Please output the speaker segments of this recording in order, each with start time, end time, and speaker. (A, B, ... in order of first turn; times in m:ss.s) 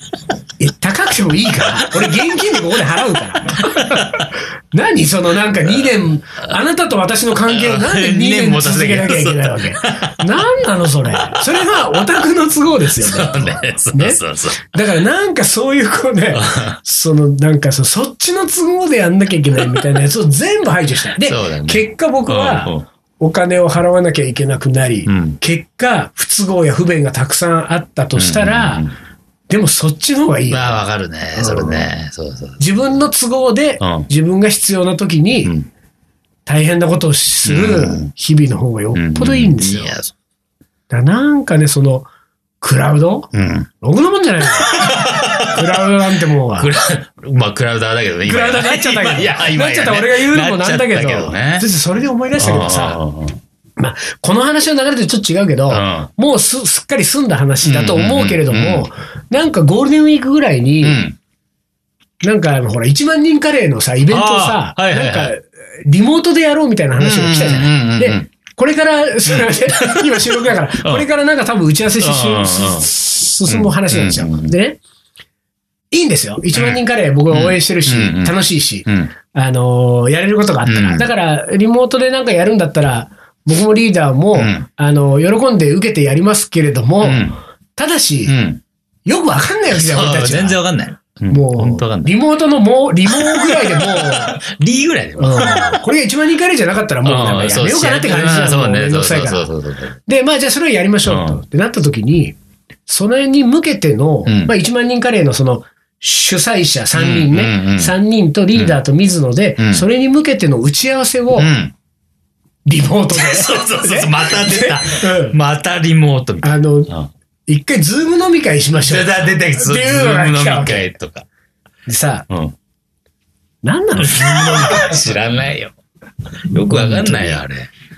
0:00.6-0:28.9 A
0:03.5-0:04.3 B
0:07.5-0:10.2 B
0:11.1-0:11.8 B
0:13.0-0:14.7 B
0:16.3-0:16.8 B
0:21.2-0:22.9 B
0:25.1-0:25.4 B
0:28.2-0:28.9 B
0:29.5-0:30.8 A
0:30.5-0:32.6 B
0:31.4-0:31.8 A
0:32.6-0:35.5 A
0:33.8-0:34.1 B
0:36.5-0:40.0 A
0:37.5-0:38.1 B
0:38.9-0:40.1 B
0:40.9-0:42.1 A
0:42.6-0:43.3 A
0:43.3-0:43.7 B
0:43.8-0:46.7 A
0:44.6-0:45.8 B
0:46.6-0:51.7 B
0:48.2-0:53.0 A
0:52.4-0:53.4 B
0:53.8-1:01.0 A
0:55.7-0:56.1 B
0:57.6-0:58.9 B
1:00.8-1:01.2 B
1:02.2-1:14.8 A
1:04.1-1:05.3 B
1:07.0-1:08.3 B
1:09.3-1:11.1 B
1:12.0-1:12.9 B
1:13.5-1:14.5 B
1:15.9-1:28.4 A
1:16.5-1:19.1 B
1:20.6-1:21.1 B
1:24.4-1:24.6 B
1:27.0-1:27.4 B
1:28.3-1:28.6 B
1:29.1-1:30.6 A
1:29.7-1:32.1 B
1:31.3-1:34.4 A
1:33.1-1:35.8 B
1:35.2-1:39.5 A
1:37.0-1:40.0 B
1:40.1-1:42.4 A
1:41.1-1:41.4 B
1:42.9-1:51.5 A
1:44.3-1:44.5 B
1:46.9-1:48.0 B
1:49.6-1:49.8 B
1:51.4-1:51.7 B
1:52.7-1:55.4 A
1:53.1-1:57.1 B
1:56.4-1:56.9 A
1:57.5-2:00.9 A
1:58.8-2:01.3 B
2:01.9-2:02.3 A
2:02.3-2:02.6 B
2:03.6-2:05.0 A
2:04.0-2:05.8 B
2:06.5-2:07.7 B
2:06.7-2:07.4 A